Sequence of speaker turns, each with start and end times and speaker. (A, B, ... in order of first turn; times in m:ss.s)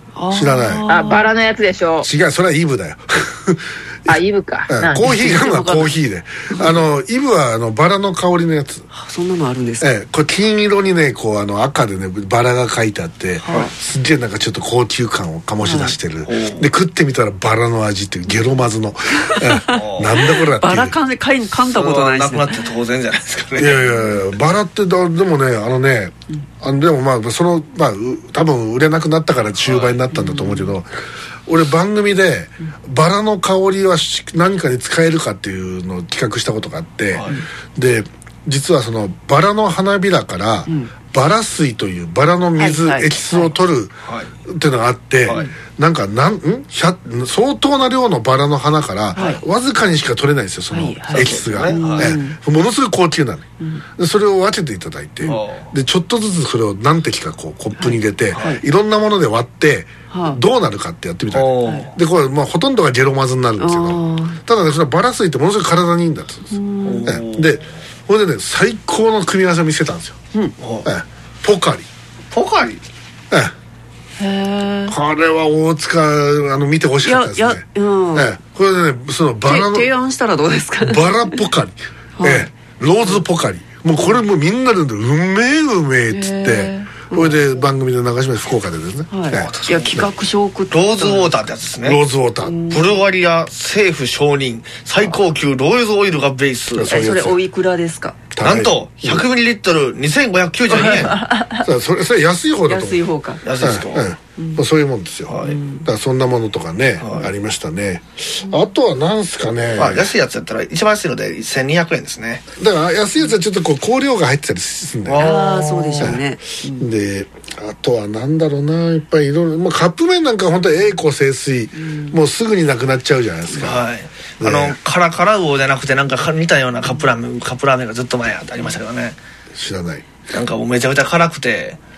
0:00.2-0:01.3 A
0:00.3-0:00.8 B
0:00.9-0:02.1 C
0:02.0-0:08.9 B
0:04.1-0:05.1 C
0:05.0-0:06.0 A
0:06.5-0:06.8 A
0:08.9-0:09.9 A
0:09.8-0:21.0 B
0:13.4-0:13.7 A
0:15.6-0:16.0 A
0:16.3-0:16.7 D
0:19.2-0:19.8 A
0:19.7-0:20.2 D
0:20.6-0:22.6 A
0:21.6-0:23.9 D
0:23.6-0:30.9 B
0:29.6-0:30.0 D
0:30.1-0:30.7 A
0:31.5-1:10.2 B
0:42.6-0:43.6 A
0:49.2-0:49.4 A
0:50.7-0:52.4 A
0:51.1-0:52.2 D
0:55.2-0:55.7 D
0:57.8-0:58.6 A
0:58.3-0:58.6 D
1:00.1-1:00.4 A
1:01.3-1:01.9 D
1:03.6-1:04.4 A
1:06.5-1:07.2 A
1:06.8-1:07.7 D
1:10.6-1:10.9 D
1:10.8-1:11.9 B
1:12.3-1:12.8 D
1:14.2-1:15.0 A
1:14.9-1:19.9 B
1:17.0-1:18.4 A
1:19.5-1:21.4 A
1:20.8-1:29.5 B
1:22.2-1:22.5 A
1:26.1-1:27.4 A
1:29.1-1:31.4 A
1:29.3-1:30.1 D
1:30.7-1:32.0 D
1:31.8-1:32.6 B
1:32.4-1:33.0 A
1:32.7-1:37.1 D
1:36.7-1:37.4 B
1:36.9-1:38.2 A
1:38.3-1:39.2 B
1:38.4-1:41.2 D
1:40.7-1:41.7 A
1:41.6-1:43.1 B
1:42.7-1:43.4 A
1:43.4-1:44.1 D
1:43.6-1:50.1 B
1:44.4-1:44.6 A
1:45.3-1:45.6 D
1:45.4-1:45.8 A
1:47.0-1:47.3 D
1:49.8-1:52.5 D
1:52.6-1:55.3 B
1:55.1-1:56.2 D
1:55.2-1:56.9 A
1:56.0-2:03.9 B
2:01.8-2:02.2 A
2:03.5-2:09.2 D
2:04.4-2:04.8 B
2:09.5-2:10.1 B
2:10.3-2:11.8 D